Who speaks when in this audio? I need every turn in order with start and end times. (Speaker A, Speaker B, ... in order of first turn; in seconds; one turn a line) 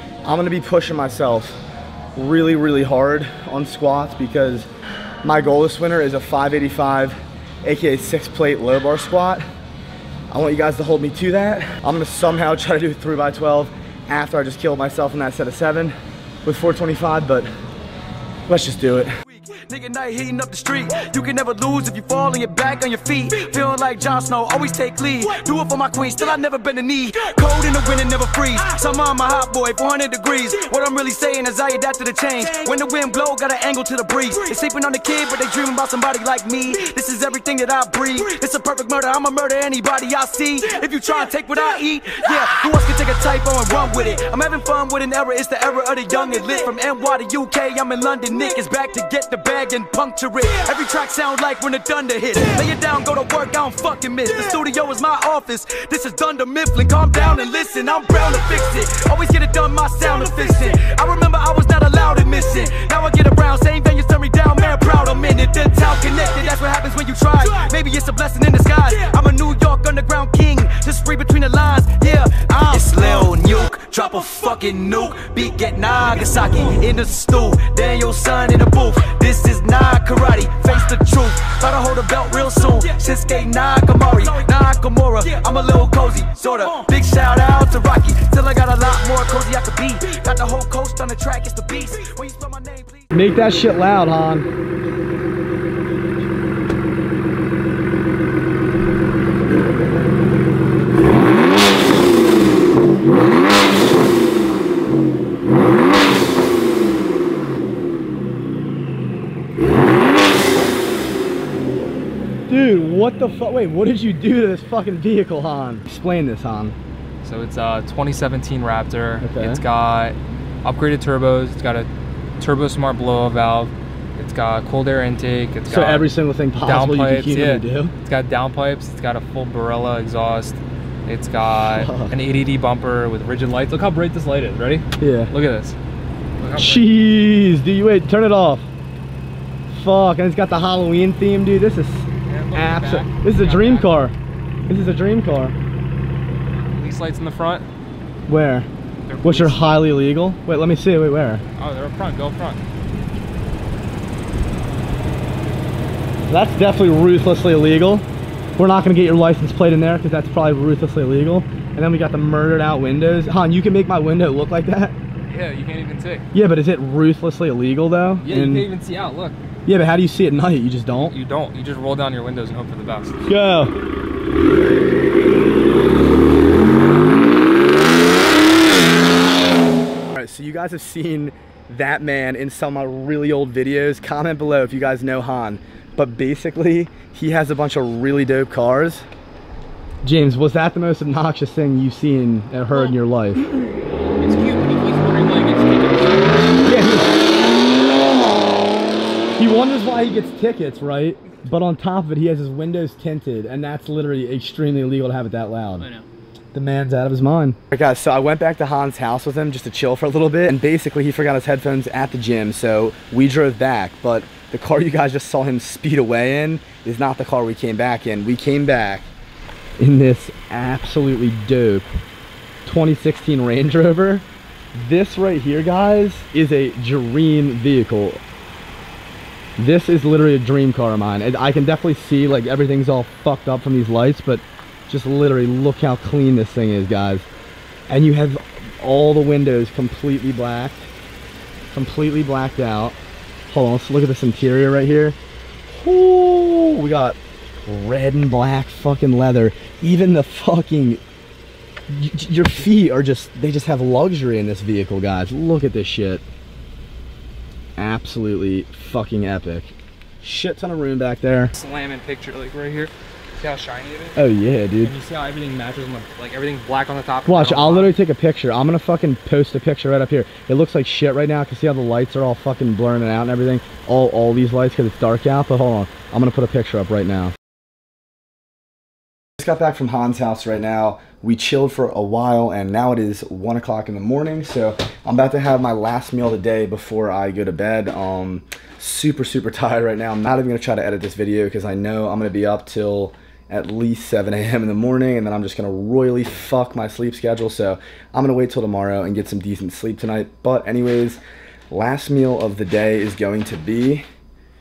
Speaker A: 0.2-1.6
Speaker A: 2.1-4.7
Speaker A: 5.2-9.4
Speaker A: 10.3-17.5
Speaker A: 18.5-19.1
Speaker B: 19.4-93.1
Speaker A: 93.1-94.5
Speaker A: 112.5-116.8
Speaker C: 117.2-121.9
Speaker A: 119.2-119.6
Speaker C: 122.4-126.1
Speaker A: 125.7-127.9
Speaker C: 126.7-135.8
Speaker A: 131.6-132.2
Speaker A: 135.0-135.3
Speaker C: 136.4-136.8
Speaker A: 136.5-138.7
Speaker A: 139.7-144.1
Speaker C: 142.3-143.9
Speaker A: 144.7-145.6
Speaker C: 146.7-147.7
Speaker A: 148.3-148.7
Speaker C: 149.1-149.7
Speaker A: 149.2-151.4
Speaker C: 151.6-152.6
Speaker A: 156.3-158.1
Speaker A: 158.6-164.9
Speaker C: 165.3-166.2
Speaker A: 166.3-168.7
Speaker C: 168.2-169.3
Speaker A: 169.7-171.1
Speaker C: 171.1-173.2
Speaker A: 173.2-173.7
Speaker A: 180.1-189.1
Speaker A: 190.0-193.4
Speaker C: 194.2-196.5
Speaker A: 196.6-197.1
Speaker A: 199.3-205.9
Speaker A: 206.5-219.1
Speaker A: 219.8-221.9
Speaker A: 222.7-228.2
Speaker A: 229.6-237.3
Speaker A: 237.9-240.9
Speaker A: 241.7-242.9
Speaker A: 243.5-245.2
Speaker A: 245.7-251.0
Speaker A: 251.9-256.2
Speaker A: 257.8-261.5
Speaker C: 261.5-264.2
Speaker A: 264.1-264.9
Speaker C: 264.8-267.9
Speaker A: 267.3-277.3
Speaker A: 279.4-304.0